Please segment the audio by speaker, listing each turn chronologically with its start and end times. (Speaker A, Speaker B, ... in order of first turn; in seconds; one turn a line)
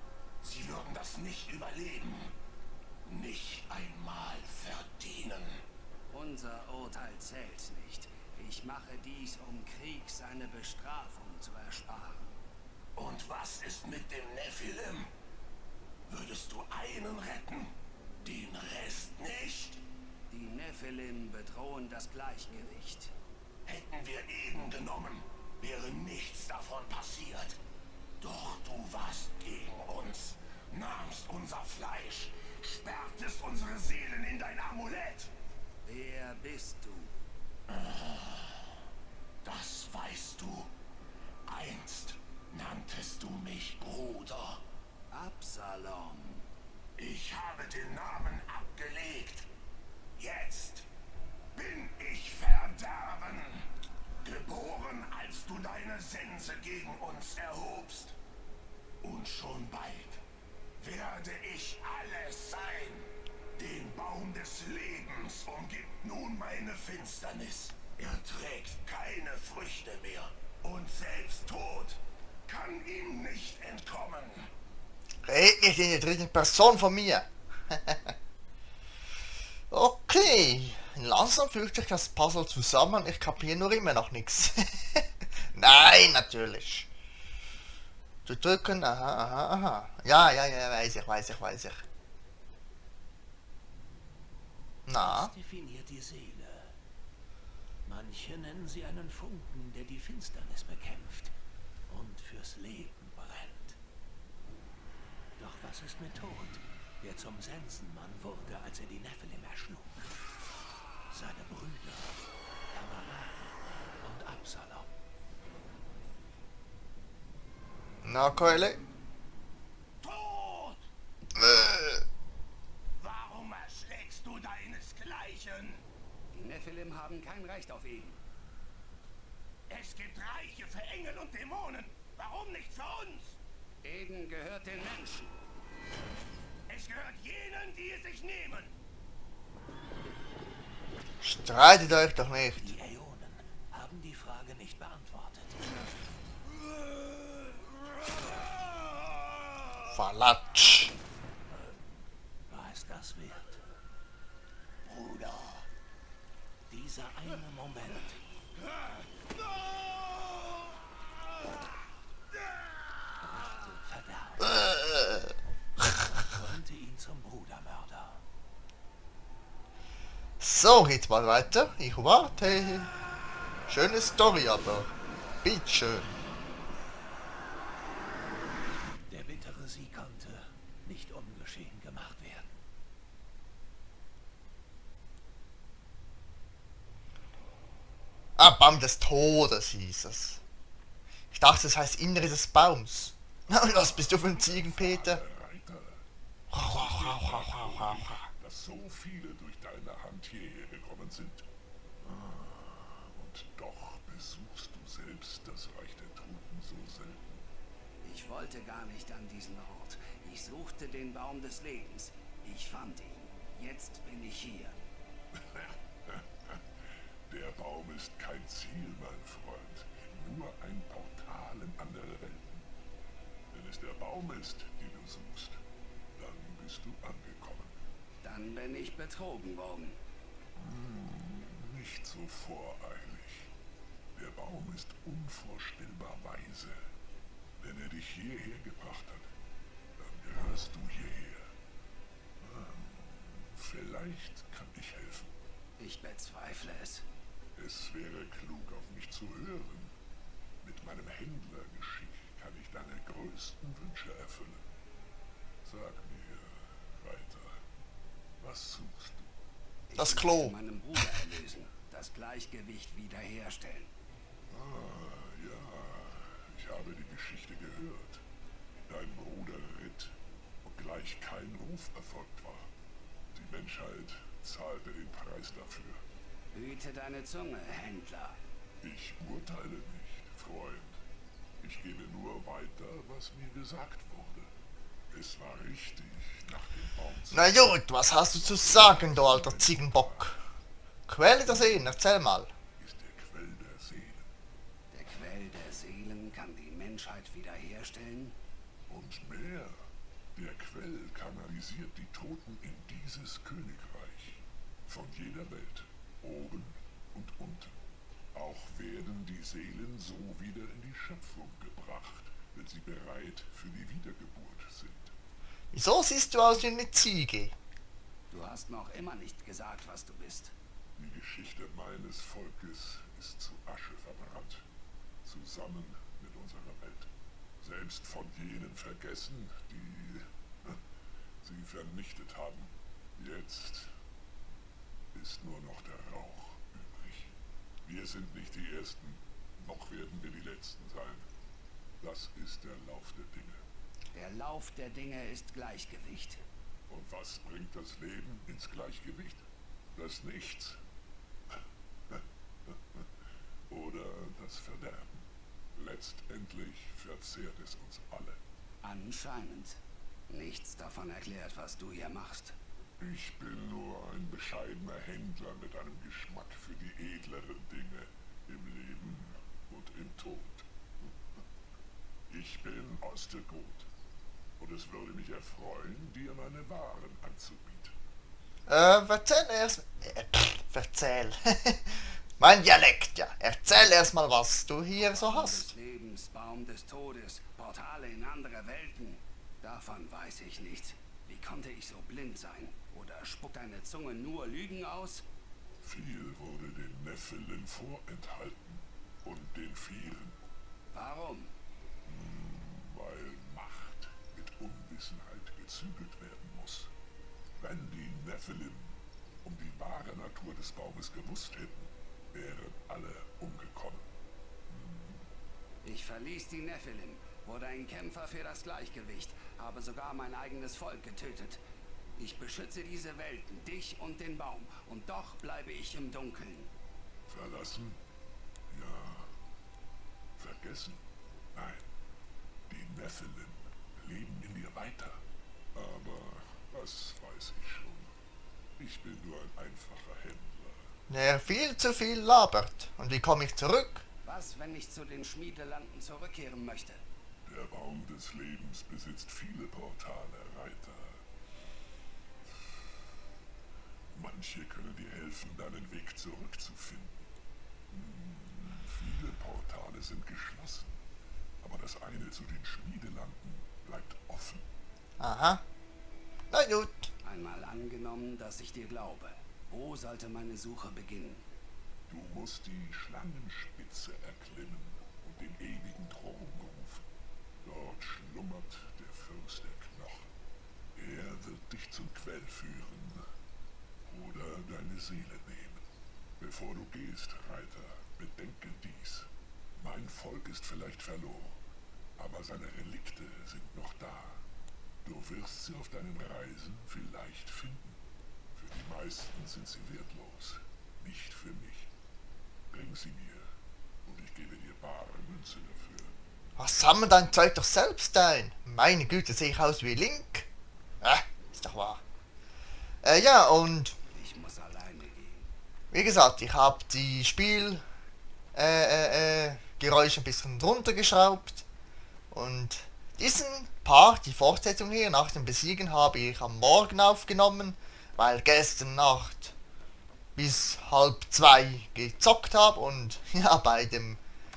Speaker A: 0.4-2.3
Speaker A: 3.1-5.6
Speaker B: 6.1-12.3
Speaker A: 13.0-15.1
Speaker A: 16.1-19.8
Speaker B: 20.3-23.1
Speaker A: 23.6-27.6
Speaker A: 28.2-35.3
Speaker B: 35.9-37.1
Speaker A: 37.7-38.6
Speaker A: 39.4-40.7
Speaker A: 41.5-44.6
Speaker B: 45.1-46.5
Speaker A: 47.0-49.5
Speaker A: 50.2-50.9
Speaker A: 51.5-53.6
Speaker A: 54.2-58.1
Speaker A: 59.0-60.2
Speaker A: 60.8-74.5
Speaker C: 75.3-78.1
Speaker C: 79.7-86.9
Speaker C: 88.3-91.8
Speaker C: 94.9-95.3
Speaker D: 95.0-96.8
Speaker D: 97.9-101.3
Speaker D: 101.9-103.8
Speaker D: 105.4-110.2
Speaker D: 111.1-112.2
Speaker D: 112.7-114.9
Speaker C: 118.0-118.8
Speaker A: 120.0-120.9
Speaker C: 121.3-122.0
Speaker A: 123.0-125.8
Speaker B: 126.3-128.2
Speaker A: 129.7-133.4
Speaker B: 133.8-135.3
Speaker A: 136.7-138.7
Speaker C: 141.2-142.7
Speaker D: 142.6-145.7
Speaker C: 149.9-150.9
Speaker D: 151.5-151.8
Speaker D: 152.5-153.6
Speaker D: 154.9-155.5
Speaker D: 156.7-158.2
Speaker D: 163.2-164.6
Speaker C: 164.4-166.0
Speaker D: 165.9-168.2
Speaker C: 170.4-172.9
Speaker C: 173.7-174.9
Speaker C: 175.4-176.2
Speaker D: 179.1-182.6
Speaker C: 188.4-190.4
Speaker C: 191.3-195.2
Speaker E: 193.5-196.0
Speaker C: 196.5-198.3
Speaker E: 196.6-201.5
Speaker E: 202.0-207.4
Speaker B: 208.0-214.8
Speaker E: 215.4-216.6
Speaker E: 217.3-222.7
Speaker E: 223.5-225.6
Speaker E: 226.2-227.8
Speaker B: 228.2-230.0
Speaker E: 230.6-233.5
Speaker E: 234.1-236.8
Speaker E: 237.6-239.3
Speaker E: 240.0-241.5
Speaker E: 242.4-245.3
Speaker B: 245.8-247.1
Speaker E: 247.6-249.9
Speaker E: 250.6-254.6
Speaker E: 255.6-257.6
Speaker E: 258.4-259.3
Speaker B: 259.9-263.9
Speaker C: 260.0-260.6
Speaker E: 264.5-268.2
Speaker E: 268.9-272.7
Speaker E: 273.3-276.0
Speaker B: 276.5-278.4
Speaker E: 278.8-281.0
Speaker E: 281.6-284.5
Speaker E: 285.1-287.7
Speaker C: 287.3-290.4
Speaker E: 288.3-290.3
Speaker C: 291.1-292.5
Speaker E: 292.8-294.3
Speaker B: 294.9-298.4
Speaker E: 298.9-299.8
Speaker E: 300.4-307.7
Speaker E: 308.3-315.1
Speaker C: 315.7-317.6
Speaker B: 318.3-320.5
Speaker E: 321.0-324.6
Speaker E: 325.2-327.1
Speaker E: 327.6-330.8
Speaker E: 331.4-333.9
Speaker E: 335.1-337.3
Speaker E: 337.9-341.3
Speaker E: 342.0-343.6
Speaker B: 344.1-346.4
Speaker E: 346.9-349.4
Speaker E: 350.0-350.8
Speaker E: 352.1-353.0
Speaker E: 353.7-358.4
Speaker B: 358.8-359.8
Speaker B: 360.3-362.6
Speaker E: 363.0-370.6
Speaker E: 372.3-373.9
Speaker E: 374.6-377.9
Speaker C: 378.7-385.7
Speaker B: 385.1-395.2
Speaker E: 395.8-400.4
Speaker B: 400.9-401.5
Speaker E: 402.1-406.9
Speaker E: 407.6-414.1
Speaker E: 414.7-415.2
Speaker B: 415.8-421.6
Speaker B: 422.2-426.7
Speaker E: 427.3-428.0
Speaker E: 428.7-429.3
Speaker E: 430.4-431.0
Speaker E: 431.5-431.9
Speaker E: 432.7-435.2
Speaker E: 435.8-438.1
Speaker E: 438.8-440.9
Speaker C: 441.1-444.0
Speaker B: 444.2-447.0
Speaker E: 447.5-451.2
Speaker E: 454.1-457.2
Speaker E: 457.9-460.9
Speaker E: 461.6-464.6
Speaker C: 465.2-465.6
Speaker C: 466.5-467.1
Speaker B: 467.2-471.4
Speaker E: 472.1-477.1
Speaker E: 477.6-480.3
Speaker E: 481.0-483.2
Speaker E: 484.1-485.8
Speaker E: 486.4-491.6
Speaker E: 492.2-494.4
Speaker E: 495.0-498.0
Speaker E: 498.5-501.9
Speaker E: 502.7-503.5
Speaker E: 504.1-506.1
Speaker C: 506.6-510.5
Speaker C: 511.0-512.0
Speaker C: 513.0-514.0
Speaker B: 514.1-515.5
Speaker C: 515.9-517.8
Speaker C: 518.5-521.6
Speaker C: 522.3-529.5
Speaker C: 530.4-534.2